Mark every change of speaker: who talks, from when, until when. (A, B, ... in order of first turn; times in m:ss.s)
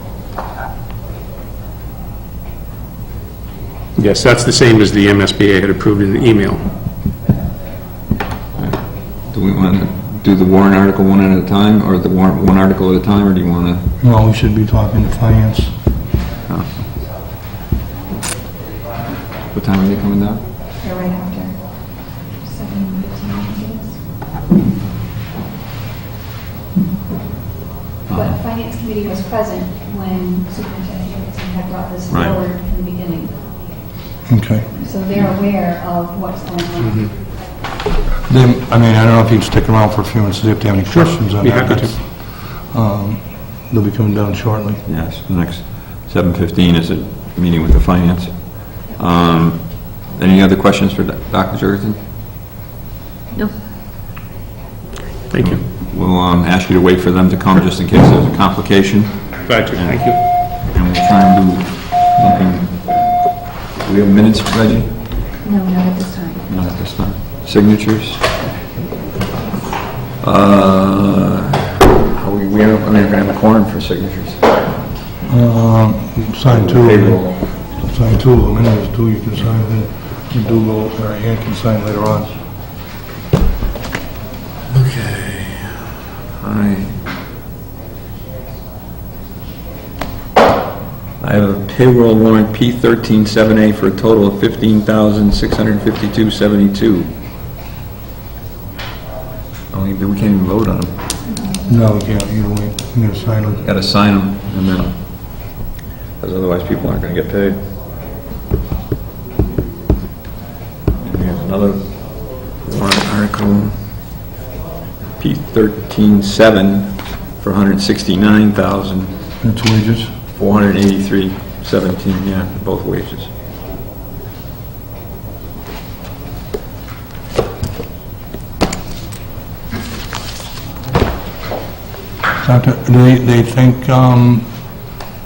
0:04.0-0:06.6 A
0:08.6-0:13.8 B
0:14.0-0:15.8 C
0:19.5-0:20.4 B
0:20.8-0:24.0 D
0:28.1-0:28.4 B
0:28.1-0:33.5 D
0:32.1-0:32.3 B
0:34.3-0:34.7 C
0:34.7-0:37.1 D
0:36.8-0:37.1 A
0:38.3-0:44.8 C
0:40.8-0:41.9 A
0:44.8-0:52.0 B
0:55.3-0:55.6 A
0:55.4-1:03.0 B
0:59.4-1:00.2 A
1:03.8-1:04.9 B
1:05.4-1:06.5 D
1:06.5-1:08.2 B
1:10.2-1:14.4 B
1:15.2-1:22.3 C
1:16.5-1:17.4 B
1:24.7-1:25.8 B
1:26.4-1:27.0 B
1:31.2-1:37.1 B
1:39.7-1:40.9 B
1:41.2-1:41.7 D
1:41.7-1:43.6 C
1:43.6-1:44.9 B
1:46.2-1:47.6 B
1:51.0-1:53.7 B
1:55.2-1:59.1 B
1:59.4-2:00.1 C
2:00.3-2:03.3 B
2:12.4-2:14.5 C